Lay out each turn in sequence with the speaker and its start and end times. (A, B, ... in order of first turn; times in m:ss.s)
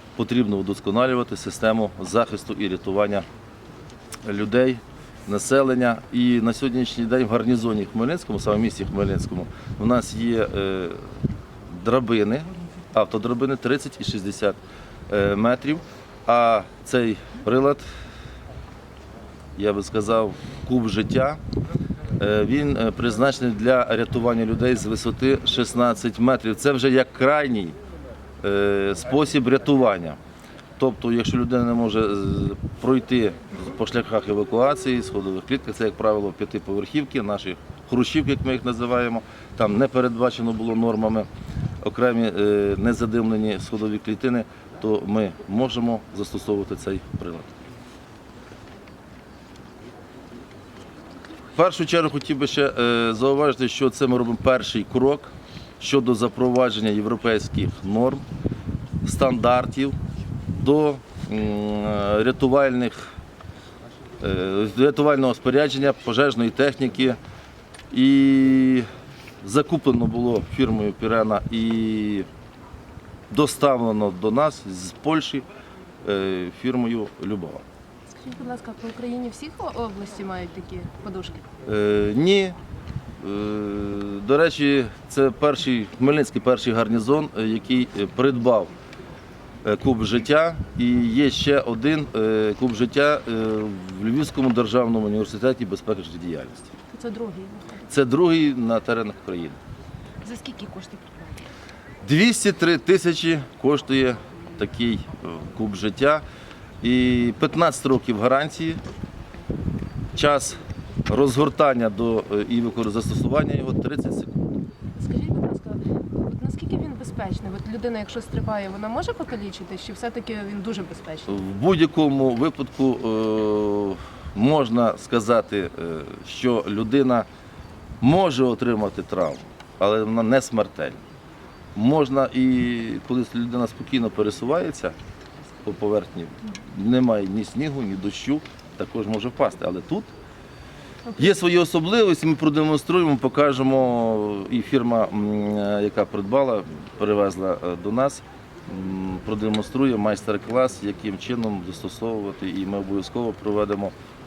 0:00.2-0:03.2 A
0:04.2-0:11.0 A
0:11.7-0:14.6 A
0:15.1-0:17.8 A
0:19.6-0:21.4 A
0:22.2-0:27.8 A
0:28.4-0:30.2 A
0:30.8-0:41.3 A
0:41.8-0:47.5 A
0:51.6-0:58.2 A
0:59.0-1:00.0 A
1:00.6-1:03.1 A
1:04.2-1:07.2 A
1:07.9-1:08.8 A
1:09.4-1:12.3 A
1:13.3-1:15.4 A
1:16.0-1:17.6 A
1:18.1-1:21.4 B
1:21.6-1:22.6 A
1:23.2-1:28.7 A
1:29.6-1:36.7 A
1:36.9-1:37.8 B
1:37.9-1:39.6 A
1:40.2-1:41.2 B
1:42.0-1:46.2 A
1:46.8-1:48.8 A
1:50.1-1:54.6 A
1:55.0-2:01.4 B
2:01.3-2:07.2 A
2:08.0-2:11.0 A
2:11.7-2:14.9 A
2:15.6-2:20.1 A
2:21.2-2:33.9 A